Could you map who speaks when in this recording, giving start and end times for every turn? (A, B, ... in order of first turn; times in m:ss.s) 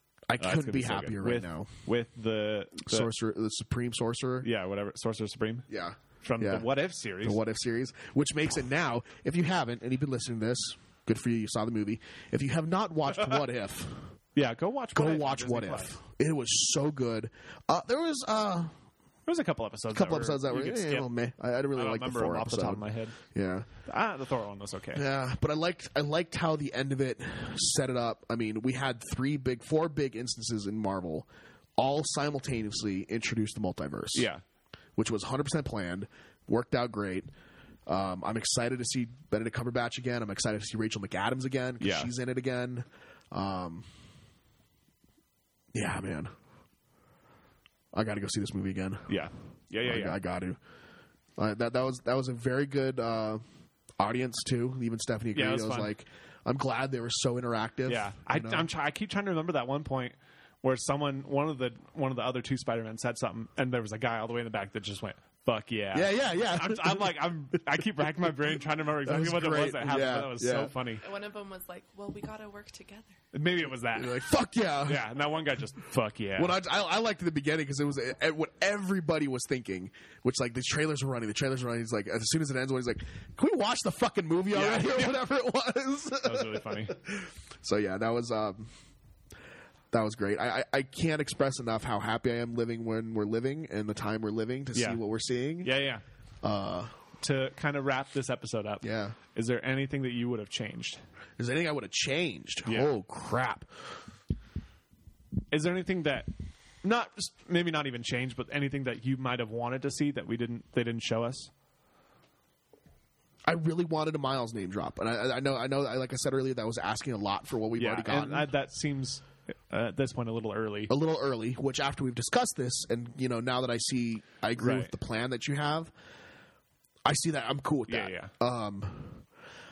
0:00.3-0:01.7 A
0:00.4-0:03.1 B
0:02.9-0:04.5 A
0:04.4-0:05.7 B
0:05.7-0:06.7 A
0:06.2-0:07.4 B
0:07.2-0:14.2 A
0:14.4-0:16.0 B
0:15.0-0:18.7 A
0:19.3-0:21.1 B
0:19.9-0:23.7 A
0:21.8-0:23.2 B
0:23.8-0:25.0 B
0:25.0-0:34.3 A
0:34.1-0:34.4 B
0:35.0-0:37.3 A
0:37.9-0:43.9 A
0:41.8-0:42.1 B
0:45.7-0:46.3 A
0:47.9-0:49.1 A
0:49.1-0:50.2 B
0:49.8-0:50.6 A
0:51.4-0:53.4 A
0:54.0-0:58.7 A
0:55.3-0:55.9 B
0:57.9-1:11.0 B
1:05.9-1:07.2 A
1:09.0-1:10.7 A
1:11.0-1:13.2 C
1:13.3-1:14.3 B
1:13.9-1:15.2 A
1:14.8-1:16.6 B
1:16.4-1:28.7 A
1:24.5-1:25.2 B
1:26.2-1:27.0 B
1:29.9-1:35.7 A
1:34.7-1:35.0 B
1:35.6-1:36.0 B
1:36.4-1:37.0 A
1:37.2-1:41.0 B
1:38.8-1:39.2 A
1:41.4-1:43.9 A
1:42.7-1:42.9 B
1:45.5-1:46.3 B
1:46.8-1:51.5 B
1:53.5-1:58.5 A
1:57.8-2:00.9 B
2:00.9-2:05.9 A
2:04.6-2:04.9 B
2:07.0-2:09.2 A
2:07.9-2:08.3 B